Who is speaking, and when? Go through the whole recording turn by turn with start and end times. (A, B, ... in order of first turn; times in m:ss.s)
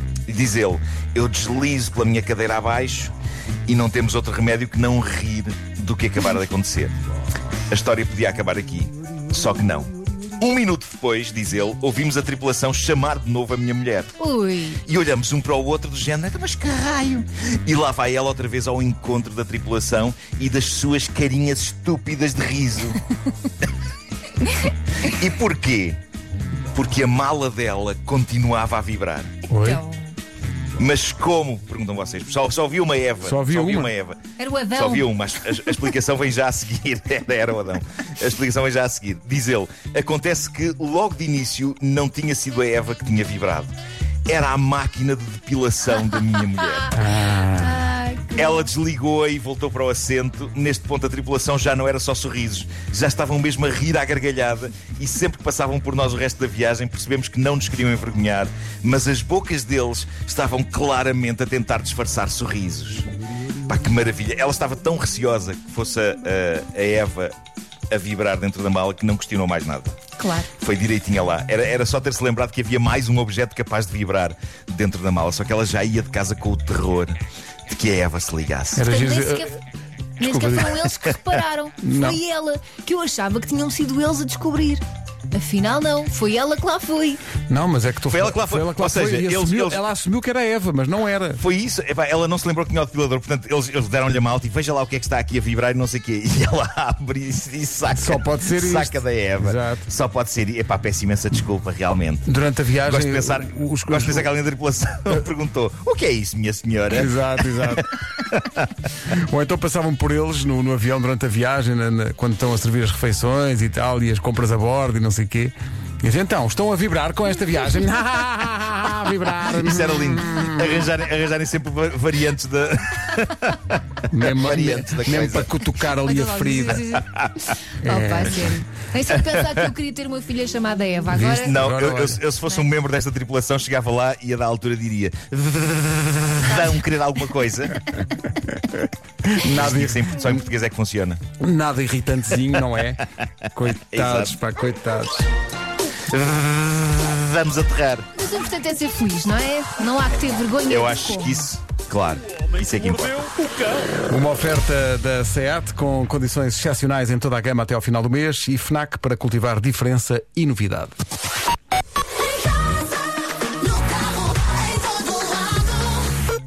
0:00.3-0:03.1 A
0:03.7-0:06.9 A
0:07.7-0:14.2 A
0:14.2-0:14.8 B
0:14.8-0:23.0 A
0:25.0-0:26.0 A
0:26.7-0:29.3 A
0:29.5-0:29.8 C
0:29.5-0:30.1 B
0:30.8-0:34.2 A
0:33.2-0:33.9 C
0:34.4-0:35.1 B
0:34.7-0:43.7 A
0:44.3-0:47.0 A
0:46.9-0:47.8 C
0:47.5-0:48.7 B
0:48.3-1:03.1 A
1:03.6-1:07.3 A
1:07.9-1:10.0 A
1:10.2-1:10.5 B
1:10.6-1:18.9 A
1:18.7-1:19.5 C
1:18.8-1:19.6 B
1:20.2-1:27.2 B
1:20.2-1:20.7 C
1:21.8-1:22.2 C
1:27.5-1:31.4 C
1:28.1-1:29.8 A
1:31.4-1:42.3 A
1:37.9-1:39.8 C
1:42.2-1:44.3 C
1:42.8-1:48.6 A
1:46.9-1:47.9 C
1:49.1-2:00.9 C
1:59.5-2:05.7 A
2:04.1-2:06.8 C
2:06.0-2:07.0 B
2:06.9-2:07.5 A
2:07.8-2:08.4 C
2:07.8-2:11.6 B
2:09.1-2:09.7 A
2:11.1-2:12.2 C
2:11.3-2:17.8 A
2:19.2-2:20.2 C
2:19.4-2:21.2 A
2:21.4-2:25.3 C
2:23.9-2:24.4 A
2:26.1-2:28.1 A
2:28.2-2:31.4 B
2:30.7-2:33.5 A
2:34.0-2:40.9 C
2:44.8-2:45.4 B